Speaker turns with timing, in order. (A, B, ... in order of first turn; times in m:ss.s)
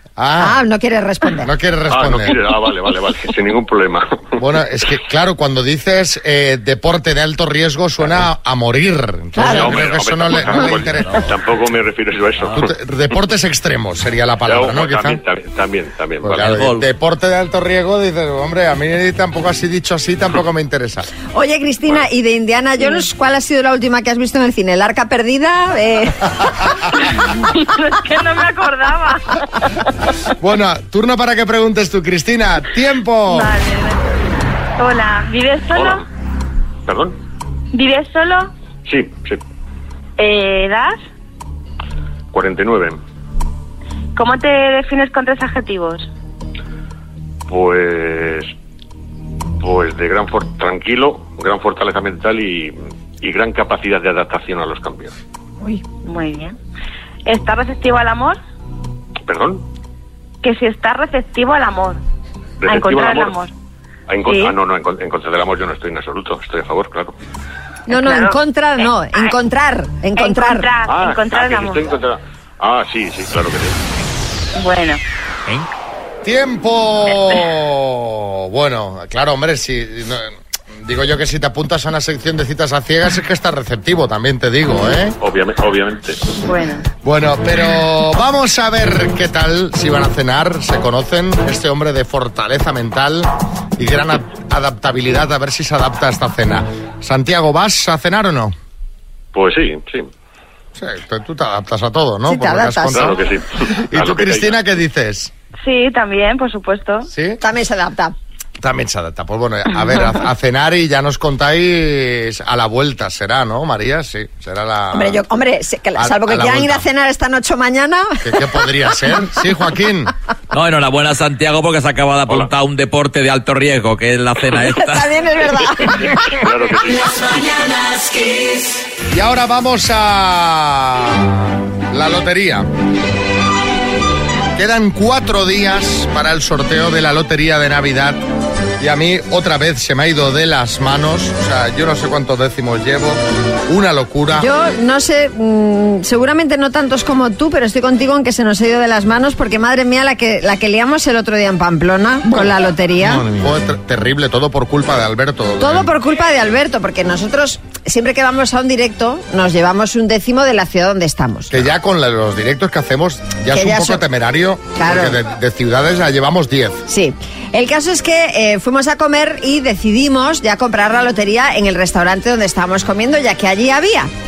0:00.2-0:00.6 A
0:00.4-0:01.5 B
0:01.4-0:02.5 A
0:01.9-0:04.4 C
0:04.4-0:11.3 A
0:09.4-0:09.8 B
0:09.4-0:12.7 C
0:12.5-0:15.2 A
0:14.4-0:16.5 C
0:16.2-0:21.1 A
0:16.4-0:16.9 D
0:21.3-0:26.7 B
0:27.4-0:29.4 E
0:30.4-0:33.5 A
0:33.3-0:34.2 E
0:34.8-0:36.0 E
0:35.8-0:36.0 C
0:36.9-0:37.2 C
0:37.7-0:38.5 E
0:38.8-0:39.4 C
0:40.2-0:41.0 E
0:42.3-0:43.0 C
0:44.1-0:46.1 E
0:47.5-0:48.5 C
0:49.6-0:55.1 C
0:56.0-0:56.6 E
0:57.2-0:58.4 E
0:59.3-0:59.6 C
1:00.4-1:02.0 E
1:02.6-1:03.4 C
1:02.7-1:03.5 E
1:04.1-1:07.1 C
1:04.2-1:04.5 E
1:07.9-1:08.4 E
1:07.9-1:10.7 B
1:10.2-1:11.9 E
1:10.9-1:13.8 C
1:14.6-1:15.0 E
1:16.2-1:25.2 A
1:25.2-1:26.2 C
1:26.4-1:26.8 E
1:27.0-1:38.5 A
1:39.3-1:40.1 C
1:40.8-1:43.2 A
1:42.3-1:43.2 B
1:42.9-1:44.6 C
1:43.8-1:45.3 A
1:45.6-1:47.1 E
1:47.1-1:47.4 A
1:47.4-1:48.1 B
1:48.6-1:55.2 A
1:54.9-1:58.2 B
1:56.0-1:56.8 A
1:58.2-2:00.1 A
2:00.5-2:05.1 D
2:04.7-2:06.2 B
2:06.0-2:07.5 C
2:09.1-2:12.7 A
2:14.6-2:18.2 A
2:18.8-2:24.5 A
2:24.4-2:33.2 B
2:33.0-2:35.9 A
2:35.6-2:41.6 B
2:41.5-2:46.8 A
2:43.5-2:44.0 B
2:44.8-2:45.2 B
2:46.9-2:54.1 B